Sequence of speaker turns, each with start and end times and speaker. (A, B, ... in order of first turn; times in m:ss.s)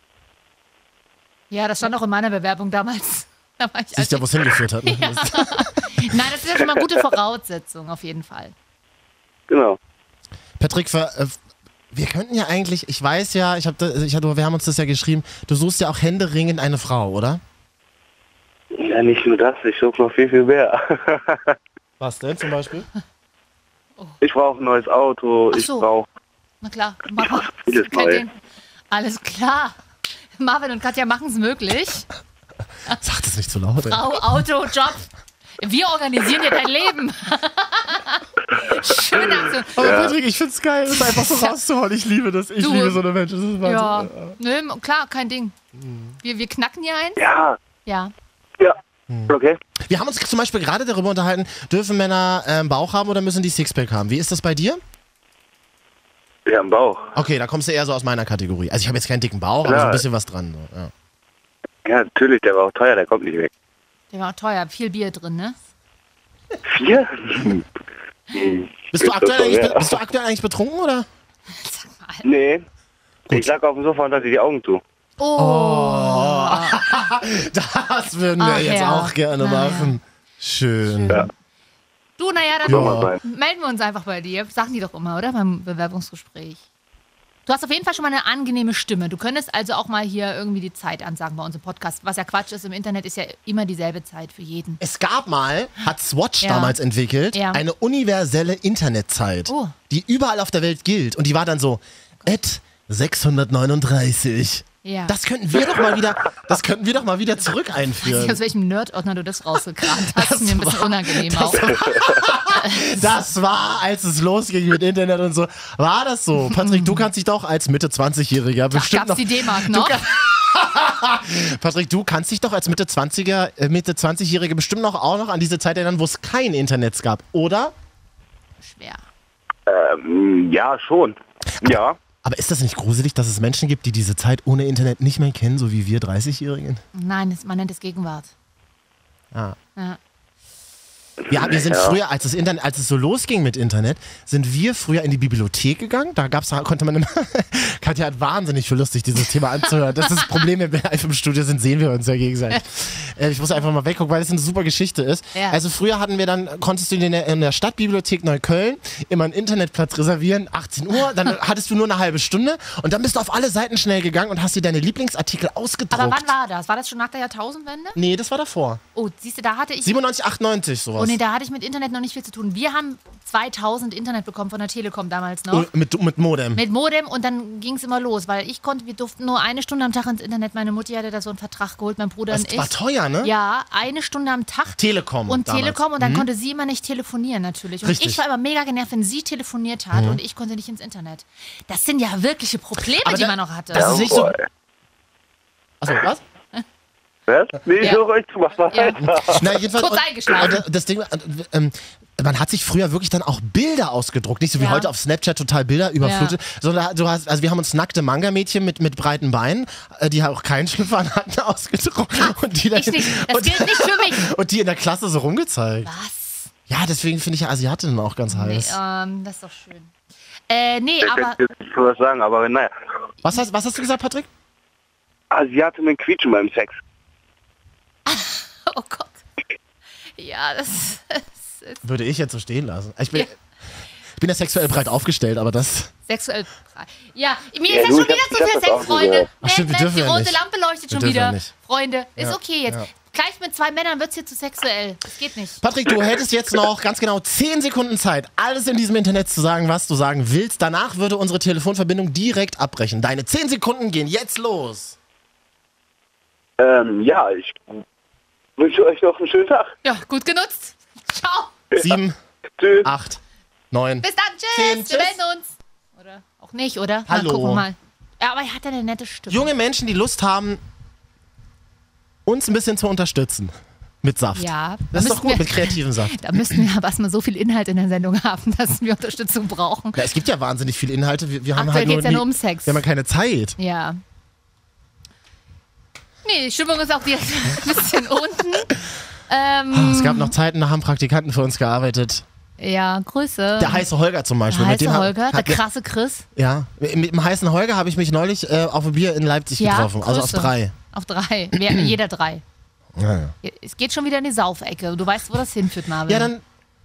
0:01.5-0:08.5 A
0:03.9-0:06.2 B
0:09.5-0:09.8 C
0:10.6-0:11.4 B
0:11.9-0:17.4 B
0:18.7-0:21.6 C
0:22.0-0:22.9 B
0:24.2-0:26.0 C
0:25.5-0:25.9 A
0:26.6-0:28.3 A
0:27.2-0:28.2 C
0:28.9-0:29.8 A
0:30.4-0:32.1 A
0:32.9-0:34.0 B
0:33.8-0:35.1 A
0:35.6-0:40.1 A
0:38.7-0:40.1 C
0:39.7-0:44.4 B
0:40.9-0:41.5 A
0:42.6-0:43.0 A
0:43.6-0:45.5 A
0:45.8-0:46.1 B
0:46.2-0:47.2 A
0:47.2-0:47.6 C
0:47.8-0:48.1 A
0:48.6-0:49.6 C
0:49.8-0:54.8 B
0:56.4-0:57.2 C
0:57.1-1:00.9 B
0:59.6-1:00.0 C
1:01.8-1:03.5 C
1:04.1-1:05.6 A
1:06.6-1:07.7 C
1:08.3-1:10.0 C
1:08.9-1:11.1 B
1:11.5-1:12.3 A
1:12.2-1:12.6 C
1:13.3-1:14.8 C
1:15.2-1:17.1 A
1:15.4-1:21.3 B
1:18.4-1:20.0 A
1:20.9-1:21.2 A
1:22.2-1:26.6 A
1:22.6-1:23.2 C
1:22.7-1:23.1 B
1:27.4-1:34.8 A
1:34.8-1:48.4 B
1:36.4-1:36.8 A
1:37.3-1:37.6 A
1:39.5-1:39.7 A
1:44.8-1:45.1 A
1:48.0-1:51.8 A
1:49.8-2:07.7 B
1:51.7-1:52.2 C
1:52.5-1:53.1 A
1:56.4-1:57.1 A
1:58.7-2:00.0 A
2:08.6-2:09.0 A
2:09.6-2:12.0 C
2:11.6-2:16.8 B
2:16.9-2:18.3 A
2:21.3-2:22.0 C
2:21.3-2:46.3 B
2:45.9-2:48.0 A
2:48.0-2:48.8 B
2:48.9-2:50.0 A
2:49.8-2:51.2 B
2:51.0-2:55.7 A
2:55.5-2:56.6 B
2:56.6-3:14.0 A
3:02.3-3:03.3 B
3:04.8-3:06.3 B
3:07.8-3:08.2 B
3:09.9-3:10.2 B
3:13.0-3:14.4 B
3:13.7-3:14.4 C
3:15.8-3:16.2 B
3:17.3-3:19.5 C
3:18.7-3:20.6 A
3:19.2-3:35.9 B
3:24.6-3:24.9 A
3:26.0-3:26.3 A
3:32.3-3:34.3 A
3:35.8-3:36.5 A
3:36.7-3:38.8 B
3:38.3-3:39.9 A
3:40.5-3:41.4 A
3:41.0-3:42.7 C
3:43.2-3:44.3 B
3:45.3-3:46.8 C
3:48.0-3:49.2 A
3:50.2-3:51.8 A
3:51.8-3:53.3 B
3:54.2-3:55.9 B
3:56.1-4:05.6 A
3:57.7-3:59.3 C
3:59.4-4:00.4 B
4:00.9-4:01.5 B
4:02.2-4:02.9 B
4:05.6-4:15.0 B
4:16.6-4:17.8 C
4:18.6-4:19.7 C
4:19.8-4:21.5 A
4:21.7-4:22.2 B
4:22.6-4:22.9 C
4:22.8-4:25.2 B
4:24.0-4:29.5 A
4:27.1-4:27.6 B
4:29.3-4:30.6 B
4:32.2-4:36.6 B
4:34.3-4:40.0 A
4:39.9-4:43.6 B
4:41.6-4:42.8 A
4:43.6-4:44.0 A
4:46.2-4:48.8 A
4:49.3-4:50.3 A
4:49.7-4:52.2 B
4:52.6-4:53.8 A
4:53.6-4:55.6 B
4:54.5-4:56.2 A
4:56.4-5:00.7 B
4:59.6-5:02.4 A
5:01.5-5:01.9 B
5:03.0-5:03.3 B
5:03.4-5:06.3 A
5:06.1-5:06.4 B